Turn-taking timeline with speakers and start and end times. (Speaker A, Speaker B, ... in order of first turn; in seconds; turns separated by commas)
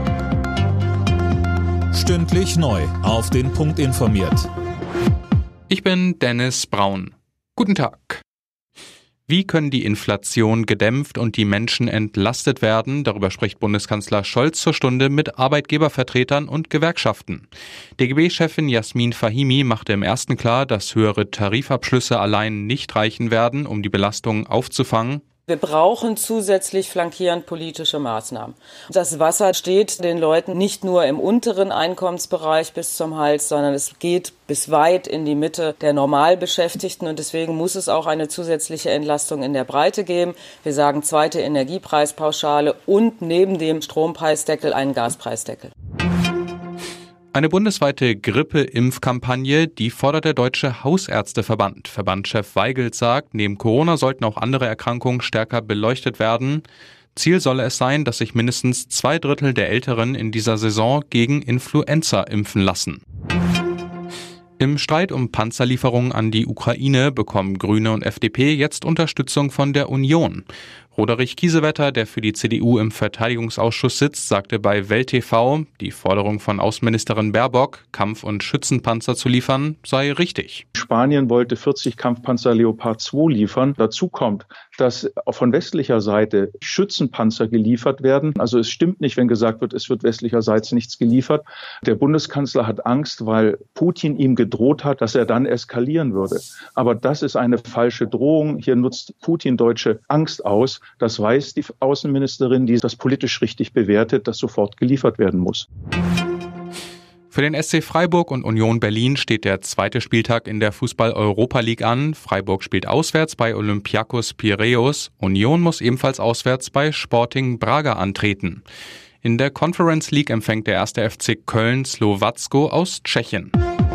Speaker A: 1.9-4.5, Speaker B: 5.7-8.2, Speaker B: 9.3-25.2, Speaker C: 25.5-45.7, Speaker B: 47.3-56.6, Speaker B: 57.1-63.0, Speaker B: 64.6-80.6, Speaker D: 80.8-105.7, Speaker B: 107.3-118.6, Speaker B: 119.2-123.5